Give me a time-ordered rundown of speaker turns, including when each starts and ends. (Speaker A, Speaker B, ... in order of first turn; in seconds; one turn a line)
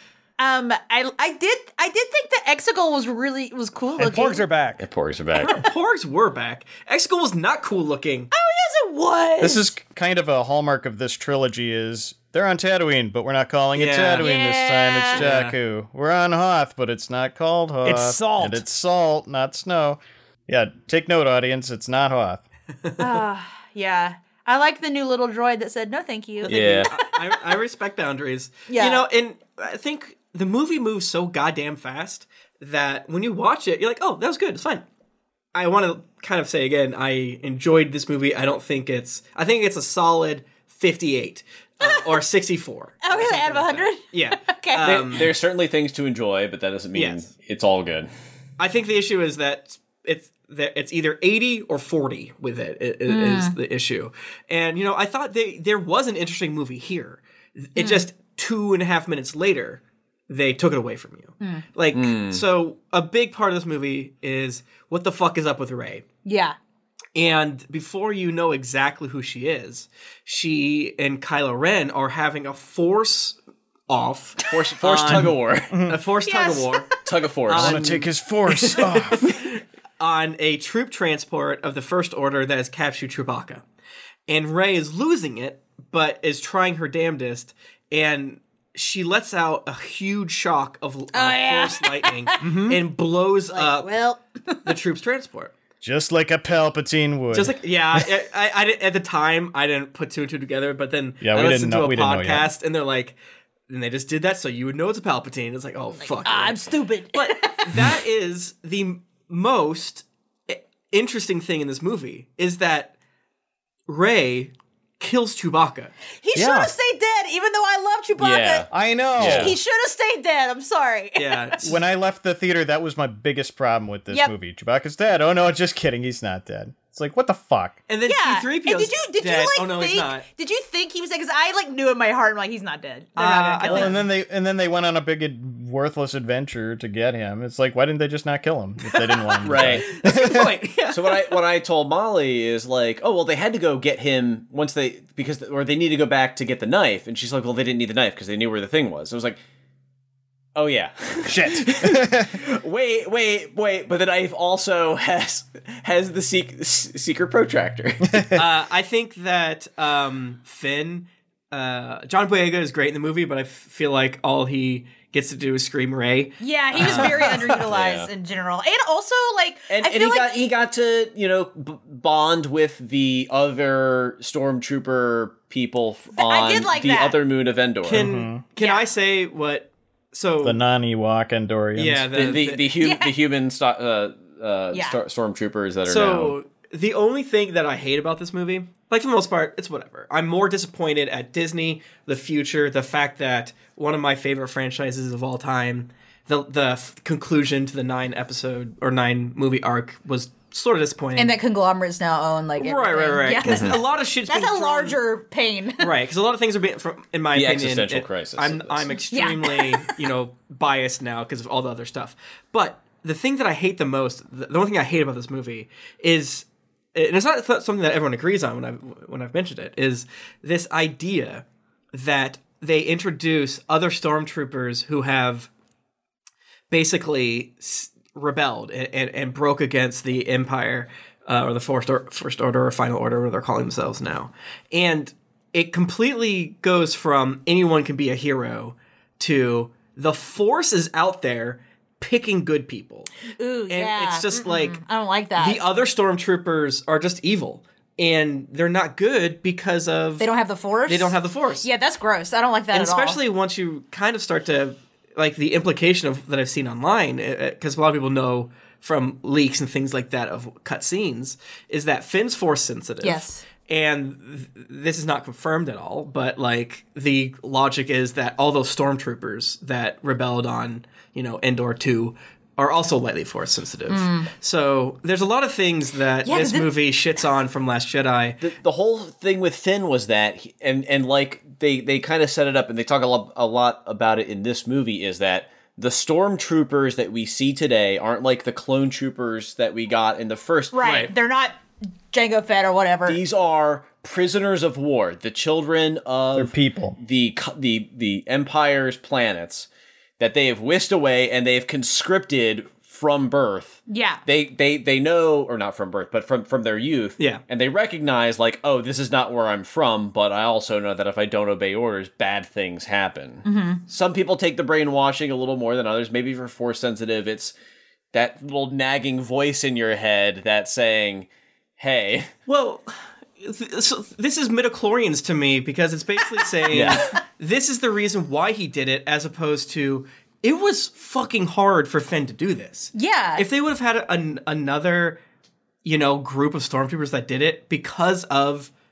Speaker A: 0.4-4.4
Speaker B: 4.0-4.8
Speaker C: 4.8-5.6
Speaker D: 5.4-8.3
Speaker A: 8.3-9.7
Speaker E: 9.4-22.4
Speaker D: 13.8-14.3
Speaker A: 14.2-15.3
Speaker D: 15.1-15.6
Speaker B: 17.8-18.6
Speaker A: 23.0-27.5
Speaker D: 26.4-34.8
Speaker C: 26.5-26.9
Speaker A: 28.7-29.1
Speaker D: 35.5-45.3
Speaker A: 41.8-42.2
Speaker A: 43.0-45.1
Speaker C: 44.8-48.1
Speaker D: 46.9-47.3
Speaker D: 48.6-66.1
Speaker A: 53.1-53.6
Speaker A: 57.8-58.1
Speaker A: 61.4-61.7
Speaker C: 61.9-62.4
Speaker A: 66.2-66.6
Speaker D: 67.2-73.4
Speaker D: 73.9-76.9
Speaker C: 74.5-75.9
Speaker E: 75.7-76.0
Speaker A: 76.2-77.0
Speaker C: 77.0-77.9
Speaker D: 77.5-83.7
Speaker E: 77.5-79.4
Speaker D: 84.3-93.9
Speaker A: 91.1-92.5
Speaker B: 92.4-92.8
Speaker A: 93.5-94.8
Speaker D: 94.7-95.5
Speaker E: 95.8-98.1
Speaker D: 97.3-103.2
Speaker E: 101.2-102.5
Speaker D: 103.7-112.9
Speaker A: 106.0-108.0
Speaker D: 113.9-115.9
Speaker A: 116.2-118.7
Speaker B: 116.3-116.7
Speaker C: 118.2-119.6
Speaker E: 118.7-119.5
Speaker A: 119.2-121.6
Speaker D: 121.2-121.8
Speaker E: 121.6-127.8
Speaker D: 127.9-130.3
Speaker A: 128.1-134.0
Speaker D: 133.2-134.0
Speaker E: 133.6-140.5
Speaker C: 139.4-140.0
Speaker D: 139.6-141.2
Speaker C: 140.9-149.4
Speaker C: 150.6-158.3
Speaker E: 151.3-152.3
Speaker D: 158.3-167.4
Speaker A: 166.4-170.4
Speaker C: 166.8-167.1
Speaker C: 167.7-168.1
Speaker C: 169.7-178.1
Speaker A: 176.2-177.2
Speaker D: 177.8-180.6
Speaker E: 178.0-178.4
Speaker A: 178.6-178.9
Speaker E: 180.4-182.1
Speaker D: 181.8-182.7
Speaker C: 182.1-186.4
Speaker A: 182.8-183.2
Speaker A: 184.7-185.0
Speaker D: 185.8-201.4
Speaker A: 201.2-205.9
Speaker D: 202.6-205.0
Speaker C: 203.4-203.8
Speaker D: 205.8-225.5
Speaker C: 207.3-209.0
Speaker A: 209.1-210.0
Speaker D: 226.7-243.1
Speaker A: 243.4-245.7
Speaker D: 243.7-244.8
Speaker D: 245.4-250.3
Speaker A: 250.2-253.2
Speaker D: 250.9-251.7
Speaker D: 252.7-278.4
Speaker A: 263.0-263.4
Speaker A: 273.9-274.3
Speaker A: 276.2-276.7
Speaker C: 278.4-291.0
Speaker A: 290.7-291.6
Speaker D: 290.8-291.1
Speaker A: 292.1-293.2
Speaker C: 293.1-299.7
Speaker E: 296.4-297.0
Speaker C: 300.2-317.6
Speaker A: 303.9-304.2
Speaker D: 307.2-307.4
Speaker A: 313.4-313.8
Speaker C: 318.1-321.3
Speaker C: 321.8-322.3
Speaker D: 322.5-335.2
Speaker C: 326.7-327.1
Speaker A: 332.9-333.5
Speaker D: 335.8-338.7